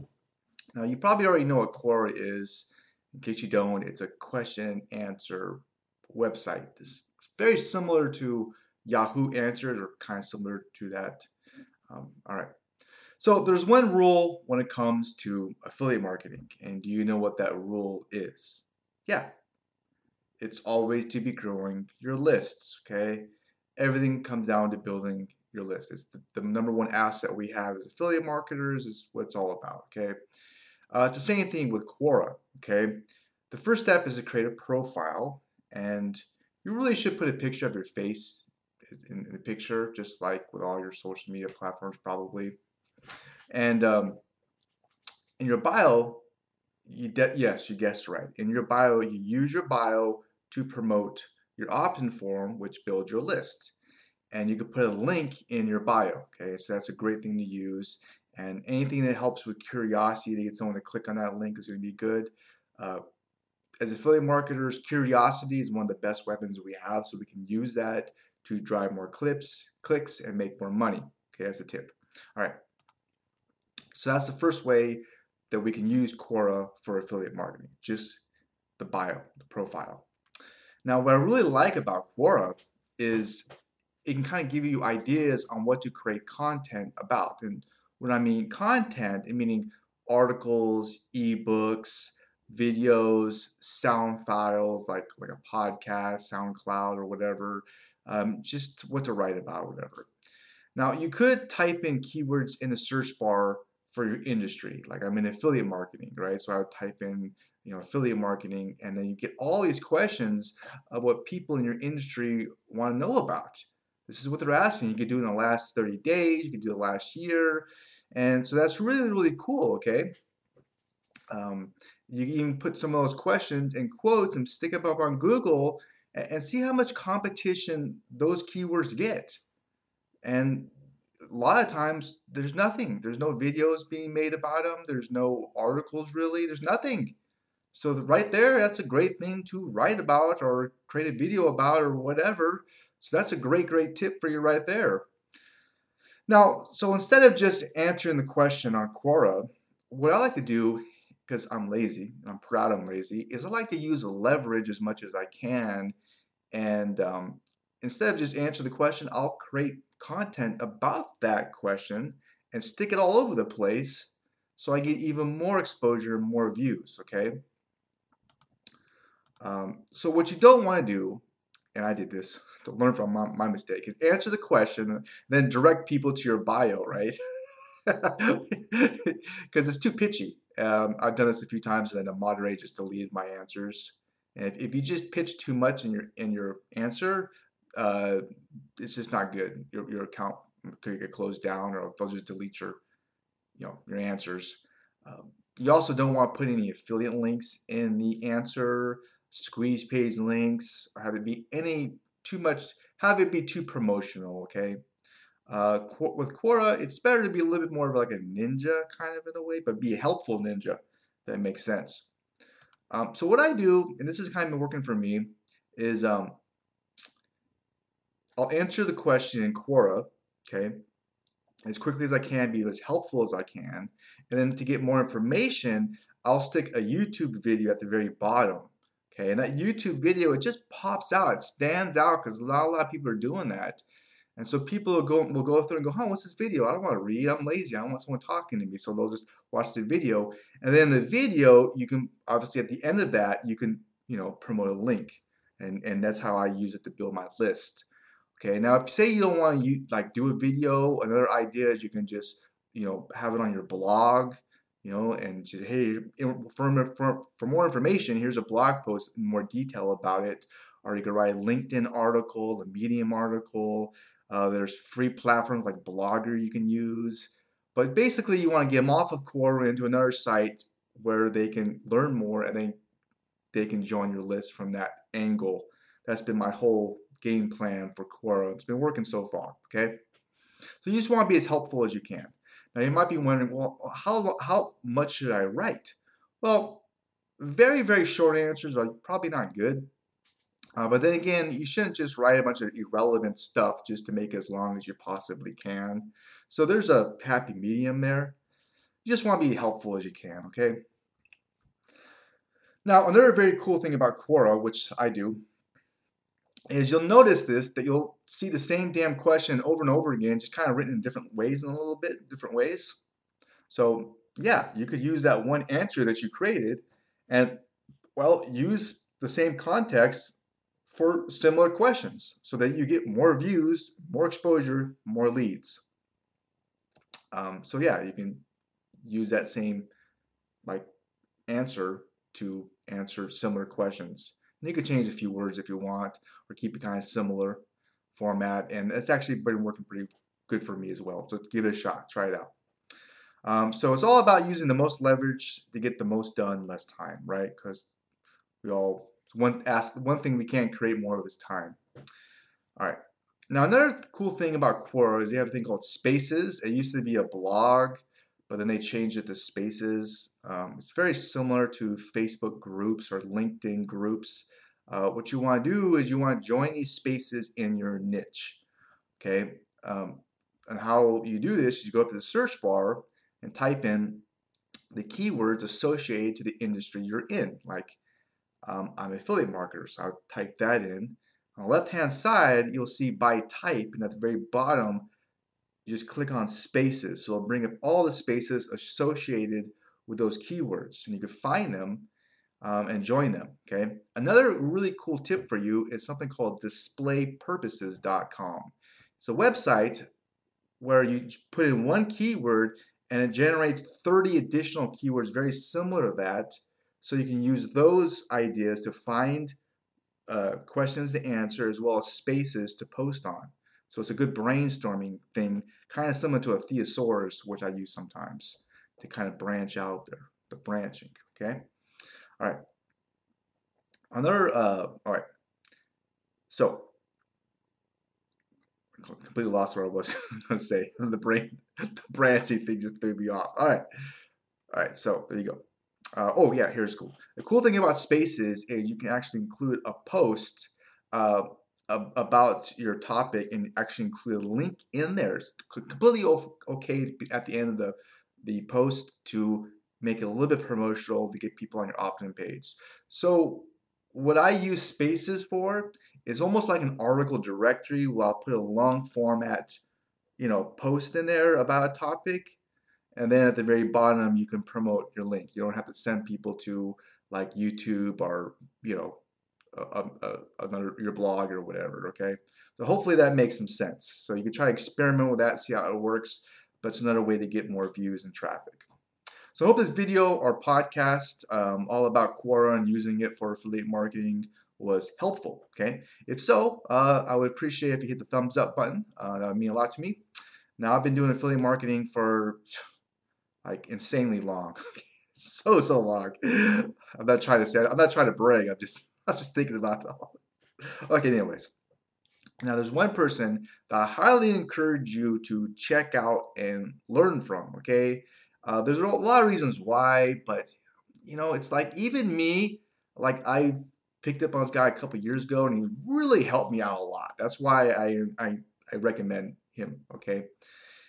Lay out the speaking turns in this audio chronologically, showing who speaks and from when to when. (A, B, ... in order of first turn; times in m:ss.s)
0:00.8-0:11.3 A
0:11.9-0:12.5 A
0:13.2-0:19.3 A
0:20.4-0:30.2 A
0:30.9-0:42.6 A
0:43.5-0:44.2 A
0:45.4-0:46.2 A
0:46.9-0:53.8 A
0:54.3-1:03.0 A
1:03.8-1:12.6 A
1:13.9-1:18.2 A
1:18.8-1:20.0 A
1:20.8-1:23.4 A
1:24.0-1:40.1 A
1:40.7-2:00.1 A
2:01.3-2:09.4 A
2:10.2-2:10.7 A
2:11.2-2:17.2 A
2:17.7-2:25.1 A
2:26.3-2:35.9 A
2:36.5-2:47.4 A
2:49.4-2:57.2 A
2:57.8-3:08.2 A
3:08.8-3:12.8 A
3:13.6-3:24.8 A
3:25.5-3:32.1 A
3:32.9-3:36.4 A
3:38.4-3:40.8 A
3:41.7-3:53.8 A
3:54.4-4:32.8 A
4:33.5-4:40.0 A
4:40.8-4:46.8 A
4:47.4-4:49.9 A
4:50.8-4:58.4 A
4:59.0-5:00.8 A
5:02.8-5:05.4 A
5:06.7-5:13.0 A
5:13.7-5:17.6 A
5:18.2-5:20.4 A
5:20.9-5:25.8 A
5:27.3-5:28.4 A
5:29.0-5:29.9 A
5:31.5-5:37.6 A
5:38.1-5:42.5 A
5:43.4-5:47.9 A
5:48.6-5:51.8 A
5:52.8-6:08.6 A
6:09.2-6:14.2 A
6:14.9-6:18.0 A
6:18.6-6:25.1 A
6:25.8-6:32.1 A
6:32.6-6:40.1 A
6:40.8-6:49.6 A
6:50.3-7:01.7 A
7:04.1-7:05.2 A
7:06.5-7:06.9 A
7:09.0-7:13.8 A
7:14.7-7:15.6 A
7:16.2-7:39.8 A
7:40.4-7:42.6 A
7:43.2-7:49.2 A
7:49.7-7:58.9 A
7:59.5-8:10.2 A
8:10.8-8:12.6 A
8:13.6-8:21.7 A
8:22.6-8:40.5 A